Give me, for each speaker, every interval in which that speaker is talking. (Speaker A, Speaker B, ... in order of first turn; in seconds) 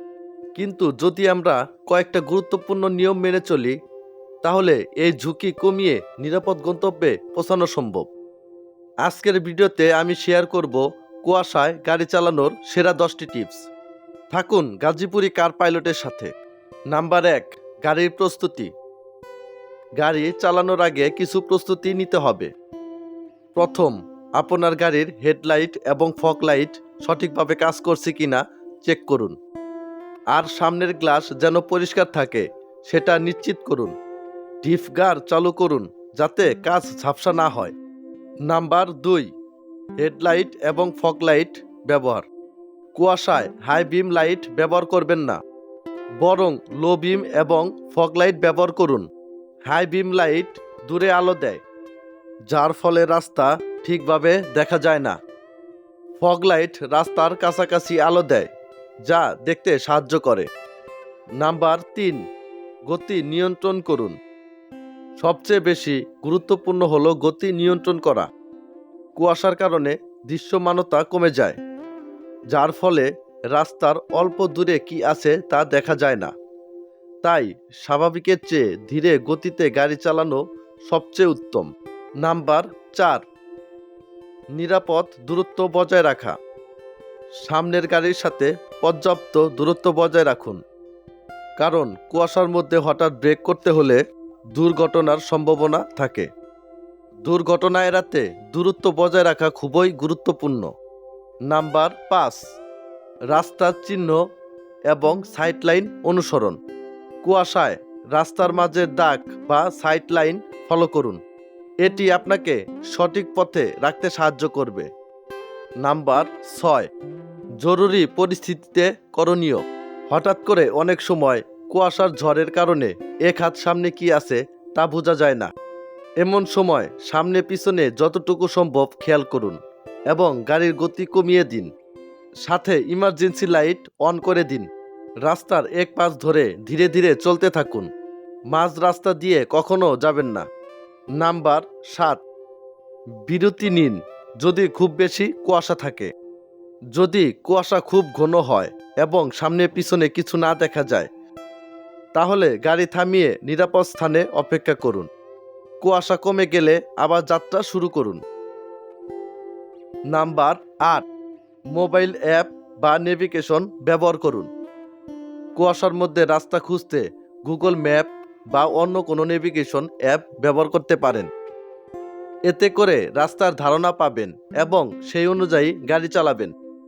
Speaker A: 0.6-3.8, 4.4-8.1, 9.1-13.7, 14.3-16.3, 16.9-18.7, 20.0-22.5, 23.6-29.4, 30.3-33.9, 34.6-37.7, 38.5-39.3, 40.0-42.2, 43.0-45.4, 46.2-49.0, 49.7-51.6, 52.5-55.2, 56.2-58.5, 59.1-60.5, 61.4-62.2, 62.9-64.2, 65.2-68.3, 69.2-71.6, 72.5-76.3, 77.2-81.7, 82.2-83.2, 84.6-86.4, 87.5-90.6, 91.6-94.0, 94.6-96.3, 97.2-100.7, 101.5-102.4, 103.3-104.2, 104.9-106.6, 107.2-111.2, 111.8-114.9, 115.8-116.9, 117.6-125.5, 126.2-129.6, 130.1-131.7, 132.5-134.7, 135.3-137.9, 138.5-140.5, 141.2-142.2, 143.3-146.1, 147.0-151.1, 152.2-155.1, 155.8-158.2, 160.1-161.0, 161.7-164.5, 165.6-171.3, 172.5-176.5